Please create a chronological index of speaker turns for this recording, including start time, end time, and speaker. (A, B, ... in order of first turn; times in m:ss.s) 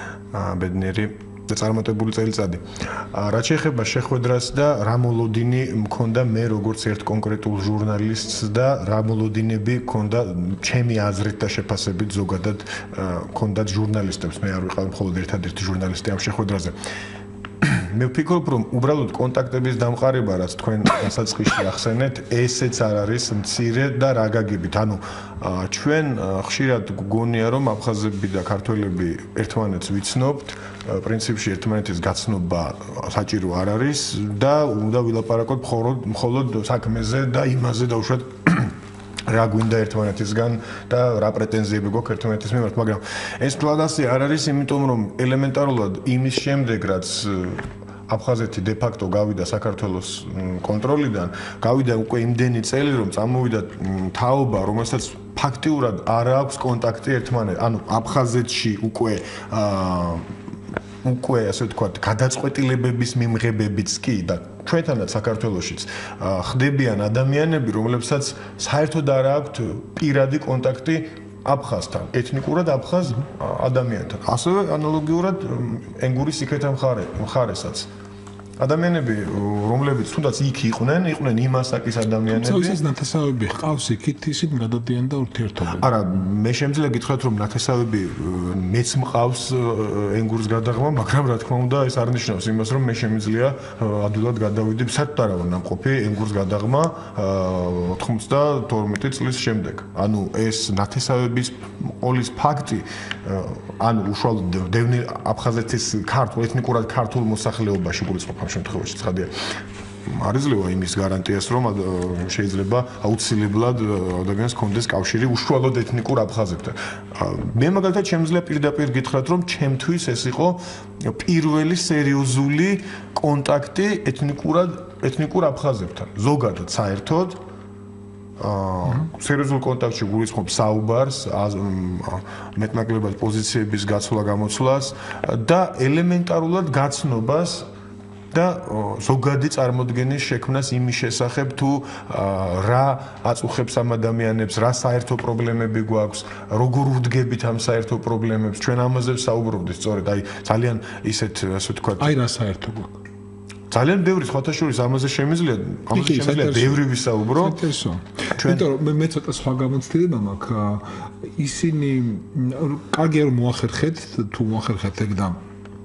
0:00.3-0:16.7 A
0:17.6-0:38.7 A
0:39.3-1:00.3 A
1:01.0-1:17.9 A
1:18.6-1:22.8 A
1:22.3-1:25.9 B
1:25.8-1:49.3 A
1:50.1-2:07.4 A
2:08.4-2:17.7 A
2:18.3-2:32.2 A
2:32.0-2:33.0 B
2:33.7-2:37.6 A
2:35.9-2:36.8 B
2:37.4-2:45.4 B
2:38.3-2:38.7 A